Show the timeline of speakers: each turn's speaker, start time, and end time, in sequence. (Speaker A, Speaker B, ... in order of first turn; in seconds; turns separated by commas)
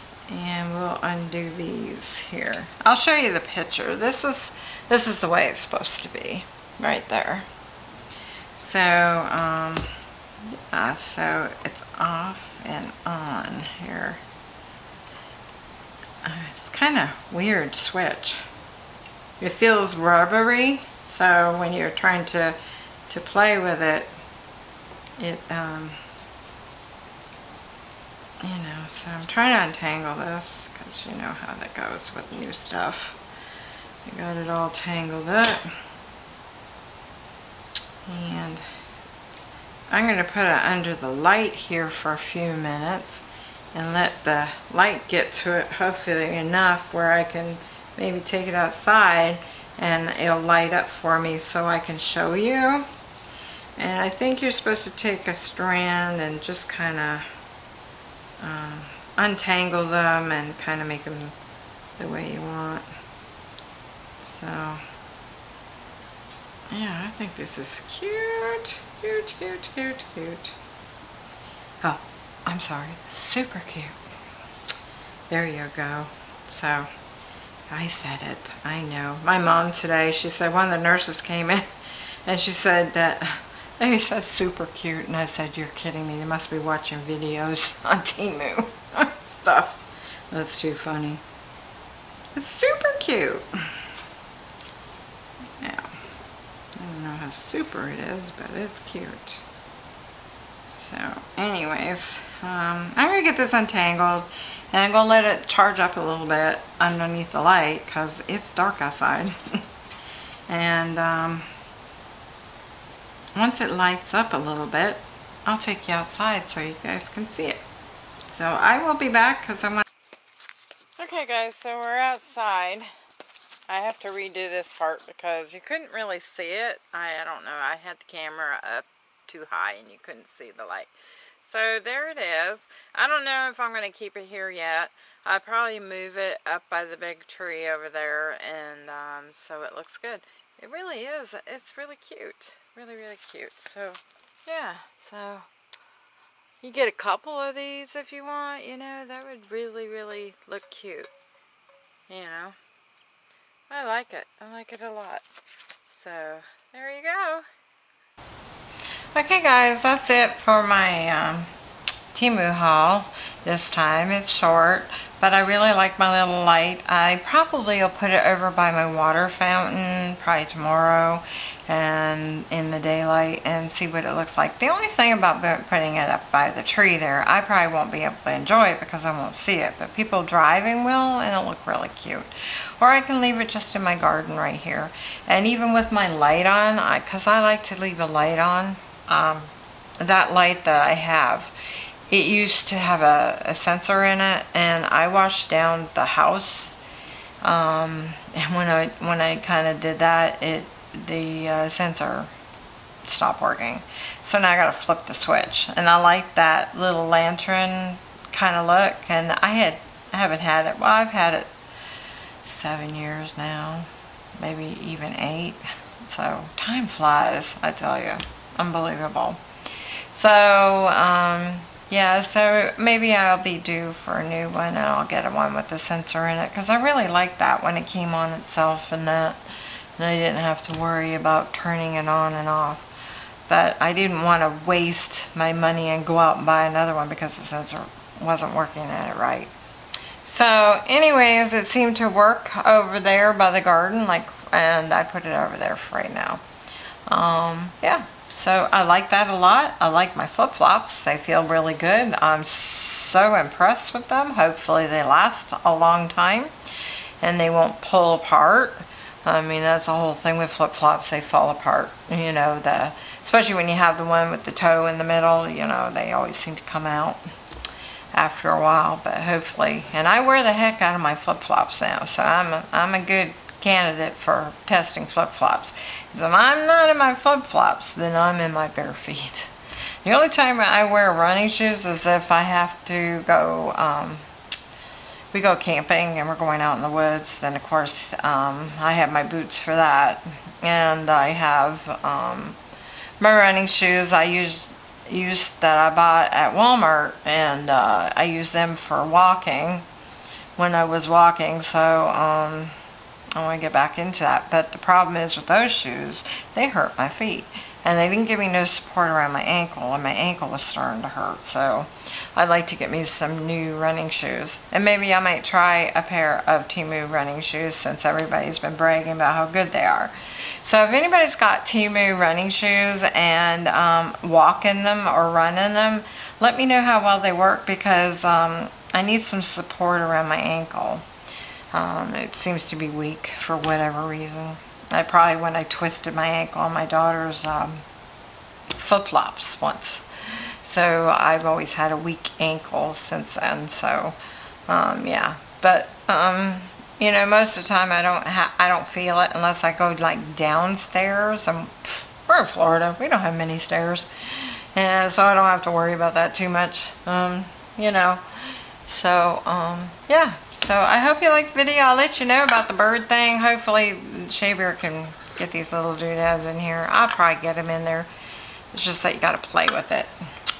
Speaker A: 0.3-7.5, Speaker A: 8.6-9.9, Speaker A: 10.7-14.2, Speaker A: 16.2-18.4, Speaker A: 19.4-22.6, Speaker A: 23.1-24.1, Speaker A: 25.2-26.0, Speaker A: 28.4-33.2, Speaker A: 34.0-35.8, Speaker A: 38.1-38.6, Speaker A: 39.9-52.9, Speaker A: 53.8-57.3, Speaker A: 58.4-61.4, Speaker A: 62.0-62.9, Speaker A: 64.2-64.8, Speaker A: 66.7-70.6, Speaker A: 71.8-74.0, Speaker A: 75.3-76.9, Speaker A: 77.7-81.7, Speaker A: 82.3-91.2, Speaker A: 92.3-93.7, Speaker A: 95.6-96.0, Speaker A: 96.8-99.4, Speaker A: 100.7-109.6, Speaker A: 110.5-111.5, Speaker A: 113.3-117.6, Speaker A: 118.3-119.9, Speaker A: 121.0-122.9, Speaker A: 123.7-145.5, Speaker A: 146.6-151.1, Speaker A: 152.1-152.6, Speaker A: 153.7-155.2, Speaker A: 155.9-157.5, Speaker A: 159.2-161.5, Speaker A: 162.1-191.5, Speaker A: 192.1-196.8, Speaker A: 197.4-202.3, Speaker A: 203.1-211.5, Speaker A: 212.4-219.4, Speaker A: 220.1-229.4, Speaker A: 230.0-232.8, Speaker A: 233.5-239.5, Speaker A: 240.2-246.4, Speaker A: 247.1-256.5, Speaker A: 257.2-267.2, Speaker A: 268.1-279.5, Speaker A: 280.0-284.2, Speaker A: 285.3-292.6, Speaker A: 293.2-299.9, Speaker A: 300.6-302.8, Speaker A: 303.4-331.1, Speaker A: 331.7-337.9, Speaker A: 338.7-340.1, Speaker A: 340.6-344.2, Speaker A: 344.7-368.1, Speaker A: 368.7-370.1